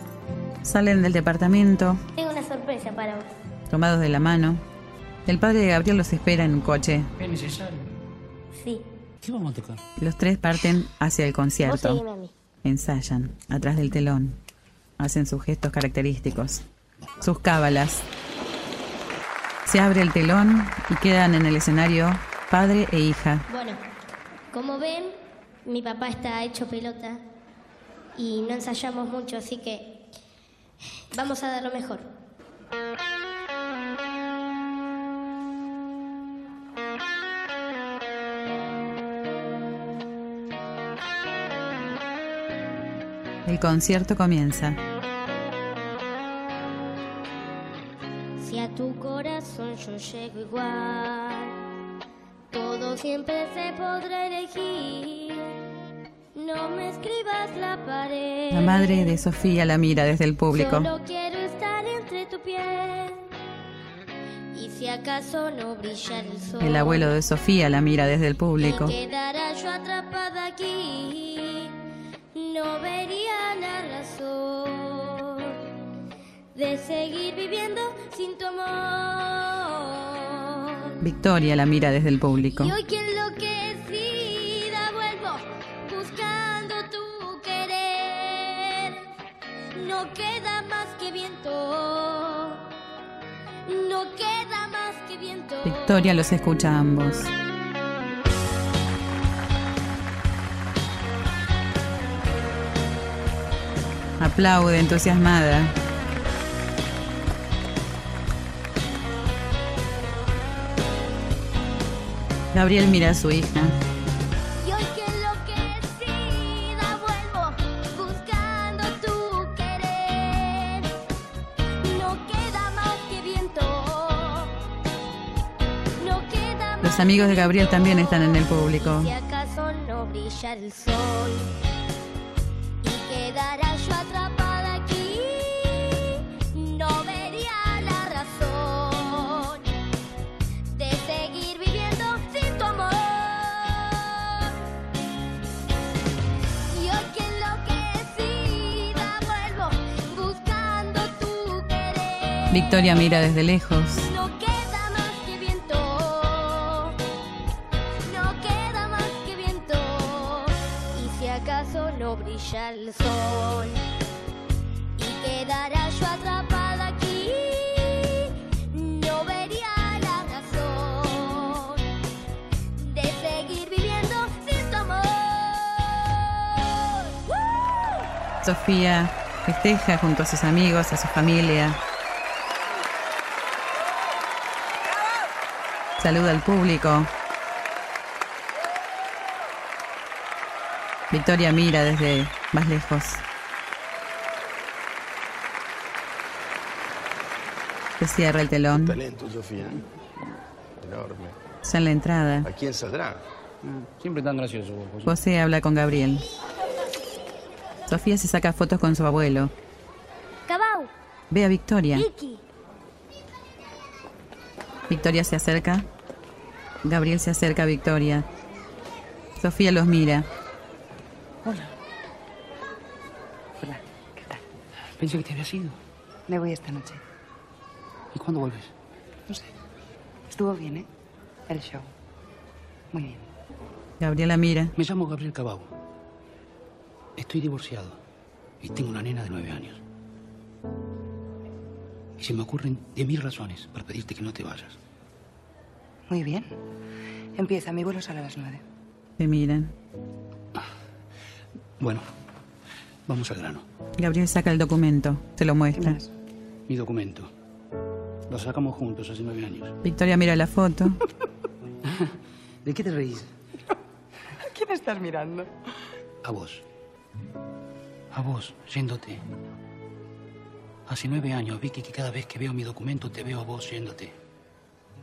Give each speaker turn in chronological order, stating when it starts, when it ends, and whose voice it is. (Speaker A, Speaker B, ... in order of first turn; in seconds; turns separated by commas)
Speaker A: 0.6-2.0, Speaker B: 2.1-3.3, Speaker A: 3.7-4.6, Speaker A: 5.3-7.1, Speaker C: 7.2-7.9, Speaker B: 8.6-8.8, Speaker C: 9.2-9.8, Speaker A: 10.0-12.0, Speaker B: 11.6-12.3, Speaker A: 12.6-14.4, Speaker A: 15.0-16.6, Speaker A: 17.2-18.1, Speaker A: 19.7-23.4, Speaker B: 23.5-23.8, Speaker B: 24.5-27.2, Speaker B: 28.2-29.9, Speaker B: 31.1-32.1, Speaker A: 43.5-44.8, Speaker B: 48.4-51.5, Speaker B: 52.5-55.5, Speaker B: 56.4-59.0, Speaker A: 58.5-60.9, Speaker B: 60.5-63.2, Speaker B: 64.5-67.1, Speaker A: 66.6-69.0, Speaker B: 68.6-71.7, Speaker B: 72.3-75.5, Speaker B: 76.5-80.6, Speaker A: 81.0-82.8, Speaker B: 82.5-88.9, Speaker B: 89.8-92.6, Speaker B: 93.7-96.1, Speaker A: 95.6-97.3, Speaker A: 104.2-105.7, Speaker A: 112.5-113.8, Speaker B: 114.6-120.9, Speaker B: 121.8-124.5, Speaker B: 126.0-131.5, Speaker A: 126.8-129.1, Speaker B: 132.8-139.6, Speaker B: 140.7-144.4, Speaker B: 146.7-152.9, Speaker A: 152.5-154.1, Speaker B: 153.9-157.0, Speaker B: 158.1-163.8, Speaker B: 165.0-171.8, Speaker B: 172.8-176.1, Speaker A: 178.4-181.8, Speaker A: 186.0-187.1, Speaker A: 191.1-193.2, Speaker A: 198.0-199.0, Speaker D: 198.7-199.8, Speaker D: 200.8-201.4, Speaker A: 201.6-202.5, Speaker D: 202.4-203.2, Speaker C: 203.6-205.2, Speaker A: 205.1-206.2, Speaker A: 207.9-209.5, Speaker B: 210.5-210.9, Speaker A: 211.3-212.1, Speaker B: 211.9-212.4, Speaker A: 214.9-215.9, Speaker A: 216.8-218.3, Speaker A: 219.4-220.3, Speaker E: 223.6-224.4, Speaker C: 225.0-225.8, Speaker E: 226.3-227.0, Speaker C: 228.1-228.7, Speaker E: 230.3-230.9, Speaker E: 231.5-231.9, Speaker E: 232.9-233.3, Speaker A: 234.0-234.8, Speaker C: 234.8-235.7, Speaker C: 237.2-238.0, Speaker C: 238.6-239.8, Speaker C: 242.2-244.8, Speaker E: 246.1-246.6, Speaker E: 247.3-248.6, Speaker A: 249.2-249.7, Speaker C: 251.8-252.1, Speaker C: 253.1-253.7, Speaker A: 254.0-256.0, Speaker E: 255.8-256.1, Speaker C: 256.7-257.3, Speaker C: 258.3-259.8, Speaker A: 259.8-261.0, Speaker C: 261.9-263.3, Speaker E: 264.4-265.5, Speaker C: 266.2-266.6, Speaker C: 268.1-269.2, Speaker C: 270.9-274.1